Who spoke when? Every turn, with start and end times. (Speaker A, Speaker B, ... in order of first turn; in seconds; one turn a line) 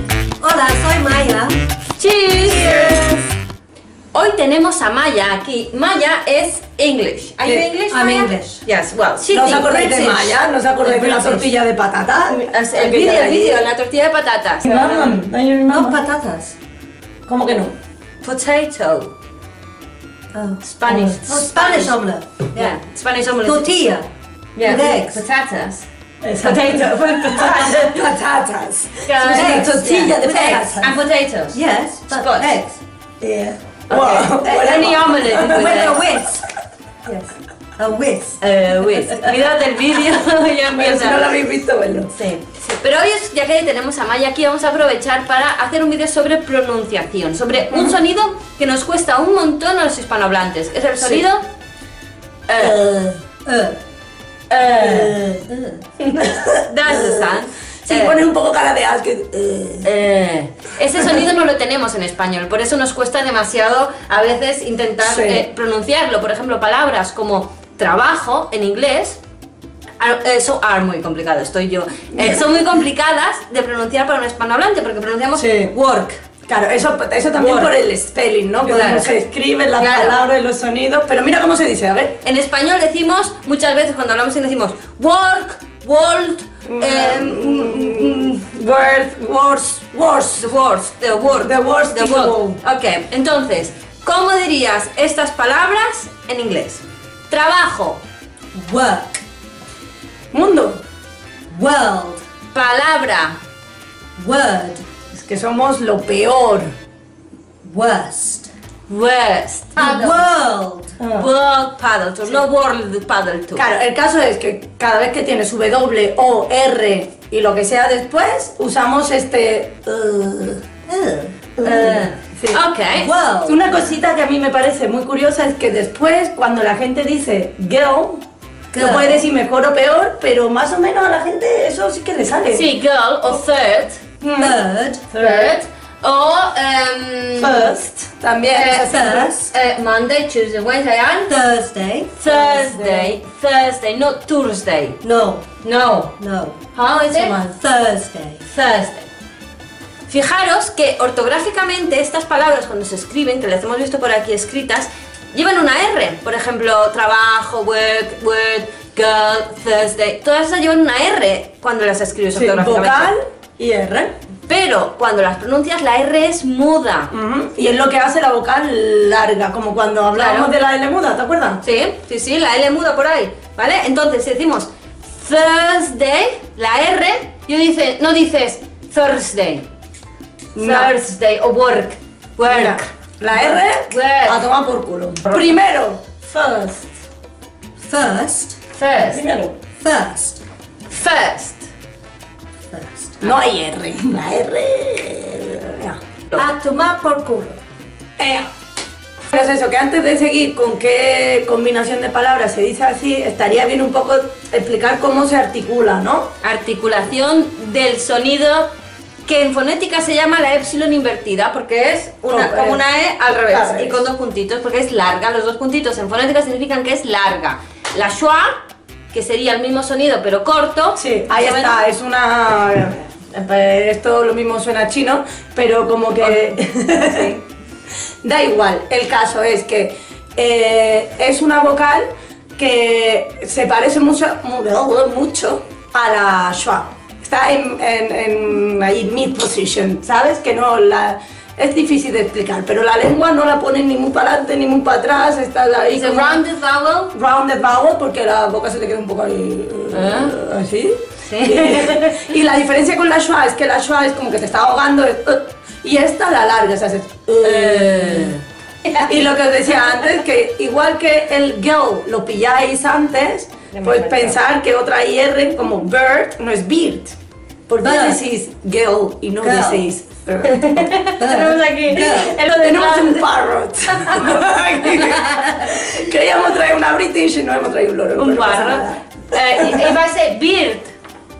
Speaker A: 0.4-1.5
Speaker B: 2.0-2.9
Speaker C: 2.4-3.3
Speaker B: 4.1-11.5
Speaker A: 7.4-8.6
Speaker C: 9.3-13.7
Speaker B: 12.3-15.1
Speaker C: 14.6-16.0
Speaker A: 15.7-16.5
Speaker C: 17.3-17.7
Speaker B: 18.2-19.1
Speaker A: 20.3-22.8
Speaker B: 20.6-22.0
Speaker B: 22.5-23.7
Speaker A: 23.4-24.1
Speaker B: 24.6-25.8
Speaker A: 24.6-25.2
Speaker C: 26.2-30.9
Speaker B: 26.4-28.1
Speaker B: 29.1-31.6
Speaker A: 29.3-30.8
Speaker A: 31.5-32.8
Speaker B: 32.1-32.6
Speaker C: 33.2-35.8
Speaker B: 33.9-36.1
Speaker A: 35.5-36.4
Speaker A: 37.0-39.3
Speaker B: 38.4-41.4
Speaker C: 40.7-42.1
Speaker B: 42.2-51.4
Speaker C: 47.7-48.0
Speaker B: 52.5-52.8
Speaker C: 52.6-53.1
Speaker A: 53.4-53.8
Speaker B: 54.5-55.3
Speaker A: 54.6-55.8
Speaker B: 56.0-58.2
Speaker C: 56.2-59.9
Speaker B: 59.8-69.2
Speaker C: 65.0-65.5
Speaker B: 70.0-76.2
Speaker C: 75.3-75.7
Speaker C: 76.5-82.2
Speaker B: 77.3-77.7
Speaker B: 78.7-79.2
Speaker B: 79.8-80.2
Speaker B: 82.2-88.4
Speaker C: 86.7-90.5
Speaker B: 90.4-98.0
Speaker C: 91.3-92.6
Speaker A: 98.5-99.2
Speaker C: 100.3-100.8
Speaker A: 101.5-102.2
Speaker B: 102.5-103.4
Speaker A: 104.2-104.8
Speaker C: 105.1-106.7
Speaker A: 107.6-108.5
Speaker B: 108.9-110.3
Speaker A: 109.8-111.0
Speaker C: 111.0-111.3
Speaker B: 111.1-113.6
Speaker C: 113.5-120.6
Speaker A: 120.9-122.1
Speaker B: 121.6-123.1
Speaker C: 122.4-122.6
Speaker A: 122.9-123.6
Speaker C: 123.4-128.2
Speaker A: 128.7-129.2
Speaker C: 128.7-132.7
Speaker B: 132.5-134.0
Speaker C: 134.2-134.6
Speaker A: 134.4-135.1
Speaker C: 135.1-135.6
Speaker B: 135.1-137.6
Speaker C: 137.4-139.3
Speaker B: 138.5-141.3
Speaker A: 138.8-139.5
Speaker A: 141.3-142.1
Speaker B: 142.2-145.0
Speaker C: 142.2-143.2
Speaker A: 145.0-145.5
Speaker B: 145.6-146.1
Speaker A: 146.2-146.6
Speaker B: 146.7-147.5
Speaker A: 147.1-148.4
Speaker B: 148.4-149.1
Speaker B: 150.1-163.1
Speaker C: 162.3-164.1
Speaker B: 164.5-167.1
Speaker C: 167.1-171.6
Speaker B: 170.1-170.5
Speaker B: 171.6-179.7
Speaker C: 180.5-181.0
Speaker B: 180.6-184.4
Speaker C: 182.4-186.9
Speaker A: 187.8-188.6
Speaker B: 188.7-189.2
Speaker C: 189.1-189.6
Speaker A: 189.8-190.4
Speaker B: 190.9-191.7
Speaker A: 192.7-193.2
Speaker C: 193.2-196.0
Speaker A: 196.3-197.6
Speaker C: 198.2-198.5
Speaker C: 199.3-206.3
Speaker B: 206.4-208.7
Speaker B: 209.2-218.6
Speaker C: 212.3-212.8
Speaker C: 213.5-214.0
Speaker B: 219.1-221.8
Speaker C: 221.0-227.3
Speaker B: 226.2-226.5
Speaker C: 228.2-246.4
Speaker B: 245.9-247.1
Speaker C: 247.1-258.4
Speaker B: 249.9-250.4
Speaker B: 251.3-252.3
Speaker B: 257.4-259.2
Speaker C: 259.0-267.1
Speaker B: 263.7-264.4
Speaker C: 267.7-270.9
Speaker A: 267.8-268.2
Speaker A: 269.4-269.9
Speaker B: 270.4-273.3
Speaker A: 271.2-272.4
Speaker C: 272.1-279.0
Speaker B: 273.9-274.4
Speaker B: 274.9-275.2
Speaker B: 278.2-280.9
Speaker C: 279.6-279.9